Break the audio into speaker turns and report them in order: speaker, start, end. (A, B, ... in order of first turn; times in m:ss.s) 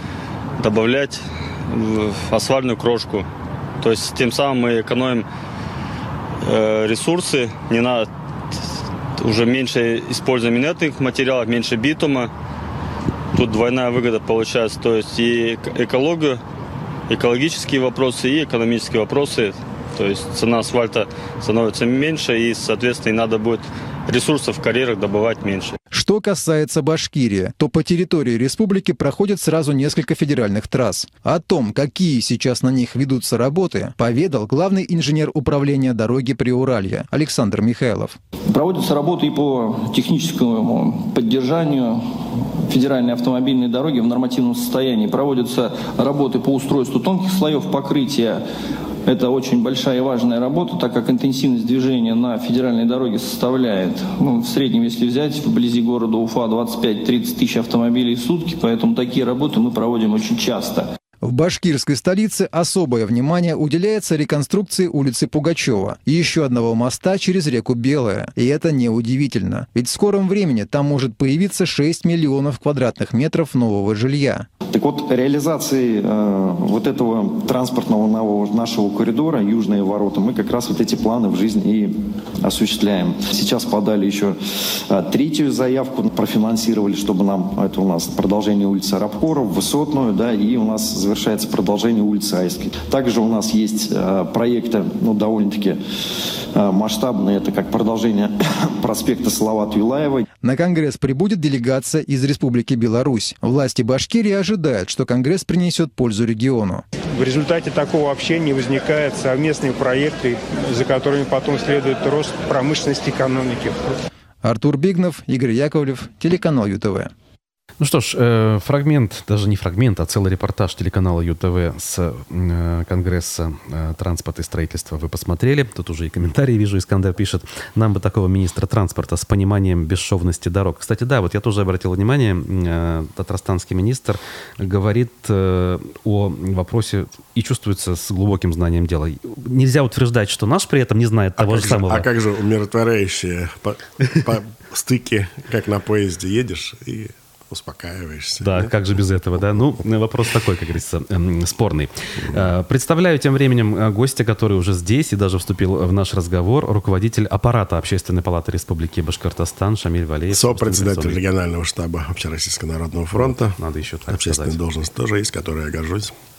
0:00.6-0:03.3 A
0:03.8-0:05.2 A
0:06.4-0:08.1 A
0:09.2-0:12.3 A
0:13.3-0:16.4 A
0:17.1-0:25.8 A
0:25.9-0:38.2 B
0:38.5-0:48.4 C
0:49.0-1:00.9 C
1:01.2-1:14.5 B
1:14.7-1:40.3 D
1:40.4-1:46.8 B
1:47.1-1:53.8 E
1:54.4-1:57.1 B
1:57.8-2:22.1 F
2:21.4-2:28.7 G
2:28.4-2:41.2 F
2:40.3-2:43.6 G
2:43.2-2:44.6 F
2:44.1-2:46.1 G